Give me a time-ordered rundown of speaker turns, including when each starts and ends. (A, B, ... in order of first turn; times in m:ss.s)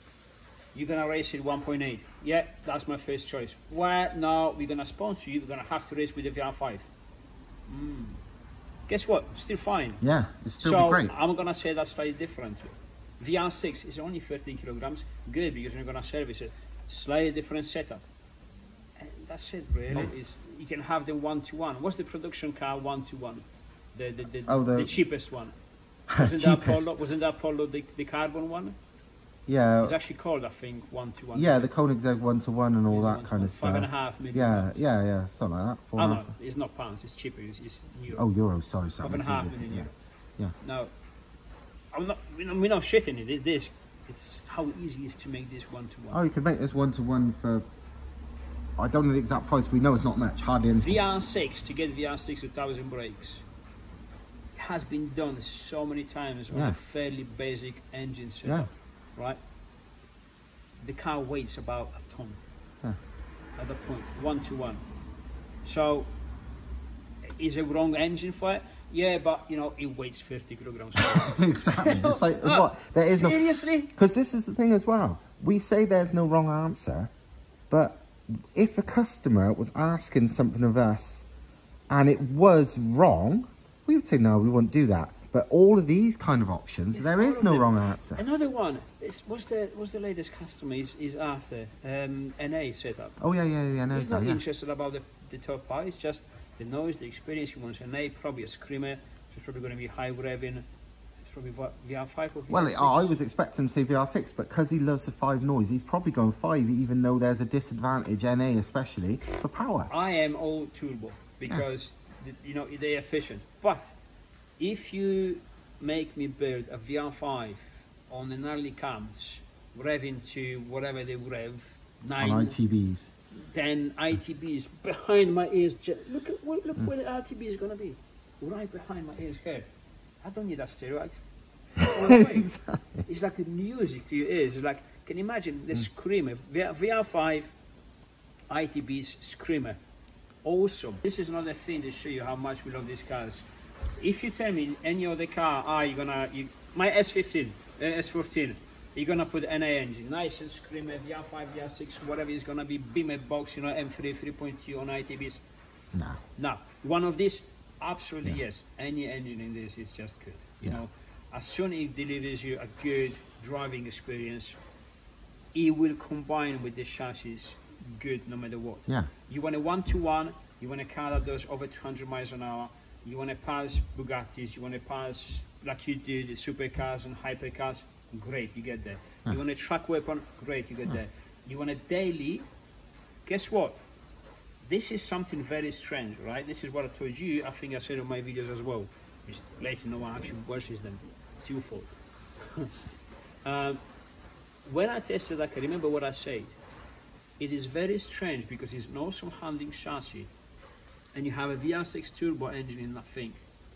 0:00.7-0:06.9 A
0:07.7-0:08.2 A
0:08.9-0:10.0 A
0:10.0-0:11.1 B
0:10.6-0:18.0 A
0:19.0-0:25.5 A
0:24.5-0:24.9 B
0:26.1-0:26.9 B
0:26.2-0:28.8 A
0:29.5-0:30.0 B
0:29.8-0:31.7 A
0:31.3-0:36.3 B
0:32.9-0:34.7 A
0:36.0-0:38.2 A
0:38.1-0:40.5 B
0:39.0-0:39.9 A
0:40.6-0:40.9 A
0:41.9-0:46.2 A
0:46.1-0:47.6 B
0:48.8-0:51.0 B
0:50.8-0:53.4 A
0:54.5-0:59.4 A
0:56.5-0:56.8 B
1:00.8-1:02.4 A
1:03.6-1:04.8 A
1:05.6-1:06.1 A
1:07.2-1:13.9 A
1:11.0-1:17.1 B
1:17.7-1:21.2 B
1:21.9-1:28.2 B
1:26.9-1:33.2 A
1:33.2-1:34.4 B
1:33.9-1:40.6 A
1:41.2-1:43.1 A
1:42.5-1:49.9 B
1:49.9-1:53.9 A
1:54.6-2:02.6 A
2:02.2-2:03.1 B
2:03.3-2:09.7 A
2:10.2-2:11.2 A
2:11.8-2:13.0 B
2:11.8-2:12.5 A
2:13.0-2:17.5 A
2:18.5-2:19.8 A
2:20.4-2:35.4 A
2:35.9-2:36.2 B
2:36.4-2:44.6 A
2:45.5-3:02.5 A
3:03.2-3:03.8 A
3:04.6-3:12.7 A
3:13.4-3:13.8 A
3:14.6-3:16.6 A
3:17.4-3:20.3 A
3:21.1-3:23.4 A